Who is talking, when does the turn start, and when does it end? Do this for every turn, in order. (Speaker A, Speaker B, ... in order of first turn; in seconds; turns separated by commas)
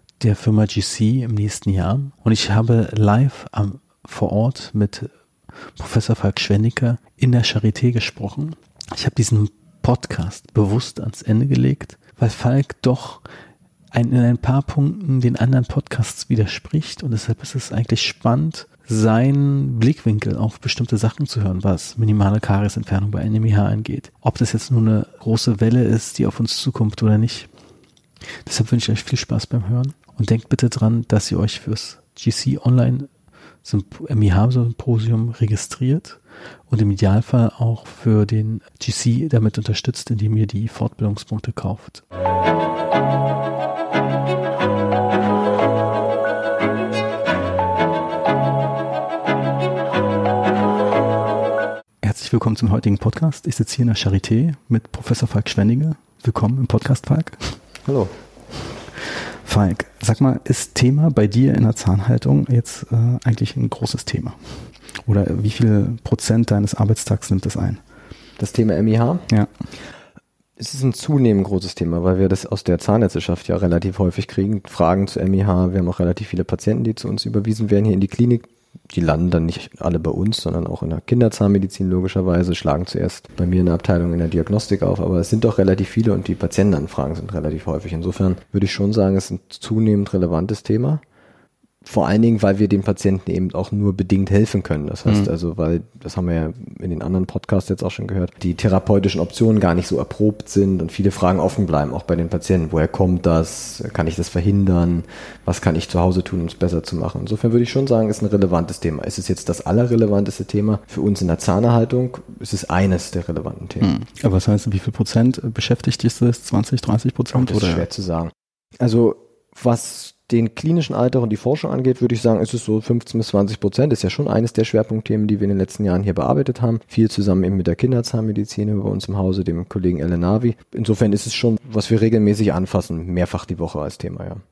Speaker A: 0.2-5.1, Speaker A: 5.8-13.2, Speaker A: 13.9-27.5, Speaker A: 28.4-33.1, Speaker A: 33.6-42.0, Speaker A: 52.0-57.6, Speaker B: 57.9-58.1, Speaker A: 59.0-67.8, Speaker B: 68.4-69.3, Speaker B: 70.6-91.0, Speaker B: 91.8-113.9, Speaker A: 113.8-117.9, Speaker B: 117.3-134.4